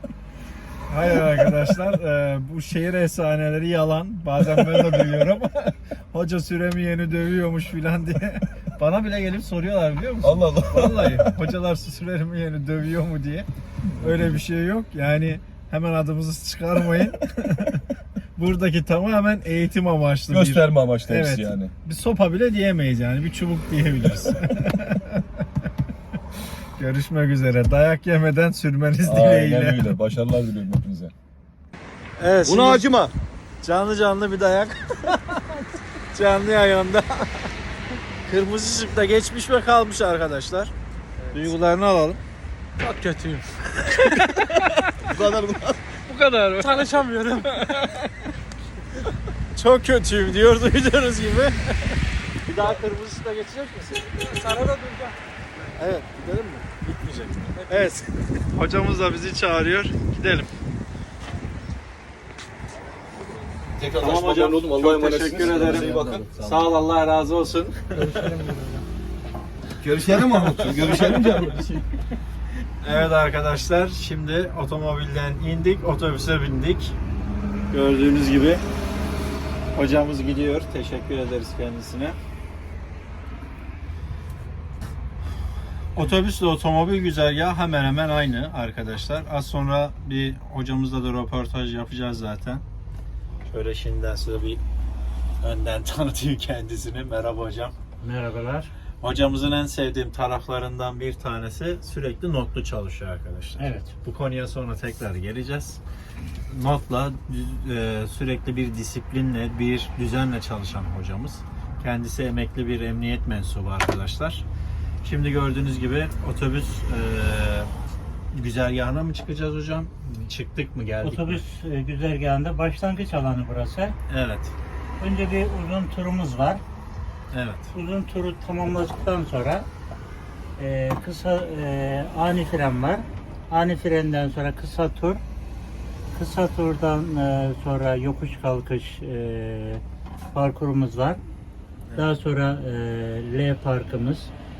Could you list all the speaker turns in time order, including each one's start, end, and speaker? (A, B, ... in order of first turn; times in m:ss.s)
0:00.9-0:25.2 A
0:01.1-0:01.5 B
0:10.2-0:11.3 B
0:14.0-0:14.4 B
0:20.3-0:21.7 B
0:26.8-0:29.9 A
0:29.0-0:31.1 B
0:32.2-0:32.9 A
0:32.4-0:33.1 B
0:33.6-0:35.6 A
0:36.1-0:37.5 A
0:38.2-0:40.7 A
0:41.3-0:42.2 A
0:42.8-0:45.0 A
0:45.0-0:45.9 B
0:46.0-0:48.3 A
0:49.5-0:54.3 A
0:54.2-0:55.2 C
0:55.7-1:00.5 A
0:57.0-0:57.8 C
1:03.8-1:06.6 B
1:04.0-1:08.4 A
1:08.0-1:08.8 C
1:09.8-1:11.8 B
1:10.1-1:11.7 A
1:12.8-1:17.0 A
1:17.7-1:18.6 A
1:19.7-1:22.2 A
1:25.9-1:32.6 A
1:33.4-1:34.6 A
1:35.4-1:37.8 A
1:38.0-1:38.7 D
1:39.0-1:45.8 A
1:43.6-1:43.9 D
1:46.5-1:54.4 A
1:55.0-1:57.7 A
1:58.3-2:01.4 A
2:01.0-2:04.0 D
2:04.1-2:04.6 A
2:05.0-2:06.6 D
2:07.3-2:07.7 A
2:07.7-2:09.7 D
2:10.6-2:15.2 D
2:16.1-2:21.2 D
2:22.0-2:24.3 D